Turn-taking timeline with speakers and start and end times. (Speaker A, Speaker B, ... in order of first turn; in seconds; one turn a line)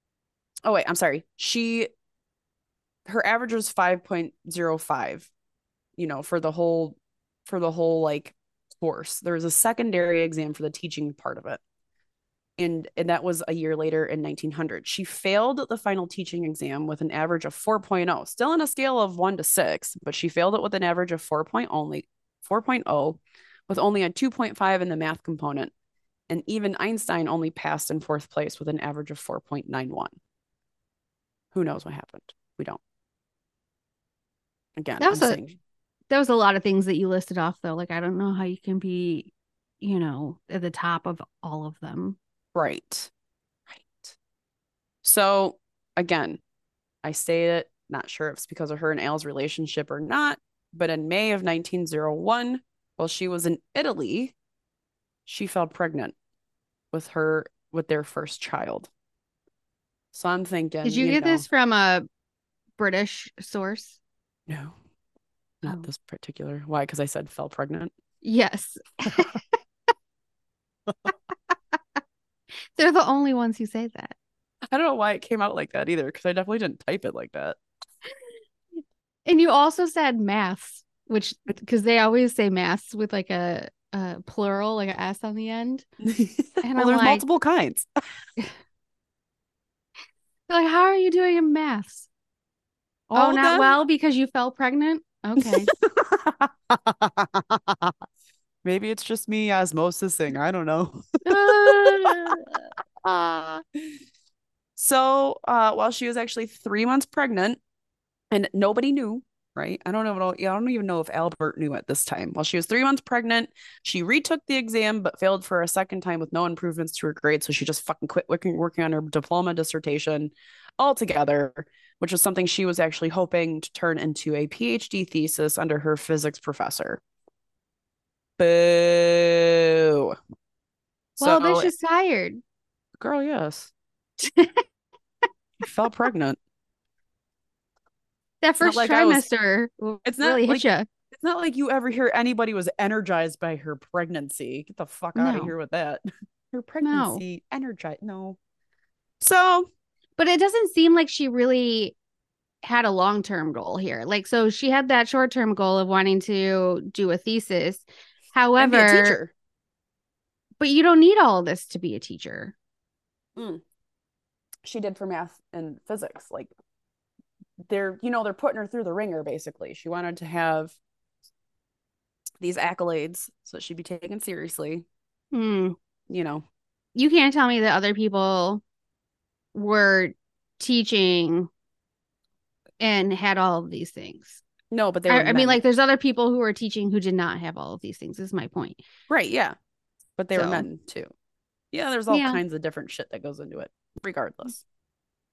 Speaker A: 0.7-1.9
Speaker A: 3.1-5.3
Speaker A: 6.0-11.6
Speaker A: 12.6-25.7
Speaker A: 26.3-30.1
Speaker A: 31.5-32.8
Speaker A: 34.8-35.6
Speaker B: 35.0-35.4
Speaker B: 36.1-42.2
Speaker A: 42.5-43.1
Speaker A: 43.7-44.2
Speaker A: 45.0-46.4
Speaker A: 47.0-54.4
Speaker A: 55.3-56.1
Speaker A: 56.9-58.9
Speaker A: 60.1-61.5
Speaker B: 60.8-62.0
Speaker B: 62.8-64.0
Speaker A: 64.5-64.8
Speaker A: 65.6-67.9
Speaker B: 68.2-69.4
Speaker B: 72.8-74.2
Speaker A: 74.7-77.6
Speaker B: 79.3-85.8
Speaker A: 86.0-87.9
Speaker B: 86.6-87.2
Speaker B: 90.5-92.1
Speaker A: 93.1-93.8
Speaker B: 93.2-95.7
Speaker A: 95.6-97.9
Speaker A: 98.6-102.4
Speaker B: 101.3-102.6
Speaker A: 103.0-103.9
Speaker A: 104.8-107.6
Speaker A: 108.3-127.0
Speaker A: 128.4-130.2
Speaker B: 131.2-132.4
Speaker A: 131.2-131.7
Speaker A: 133.0-133.7
Speaker B: 134.2-134.6
Speaker A: 135.6-136.4
Speaker B: 138.4-140.9
Speaker A: 138.6-139.2
Speaker A: 140.0-148.4
Speaker B: 145.2-145.5
Speaker B: 146.8-147.2
Speaker A: 149.2-149.7
Speaker B: 150.2-152.0
Speaker B: 152.6-159.2
Speaker A: 158.6-159.3
Speaker B: 160.6-162.6
Speaker A: 163.4-163.6
Speaker A: 164.7-166.5
Speaker A: 167.7-170.8
Speaker A: 172.4-174.9
Speaker B: 175.3-175.8
Speaker A: 176.1-176.4
Speaker B: 176.9-178.6
Speaker B: 179.5-181.5
Speaker B: 182.8-184.4
Speaker A: 184.7-185.6
Speaker B: 185.1-188.8
Speaker A: 189.1-189.6
Speaker A: 190.2-191.1
Speaker B: 190.3-190.7
Speaker A: 191.7-194.6
Speaker B: 192.1-192.4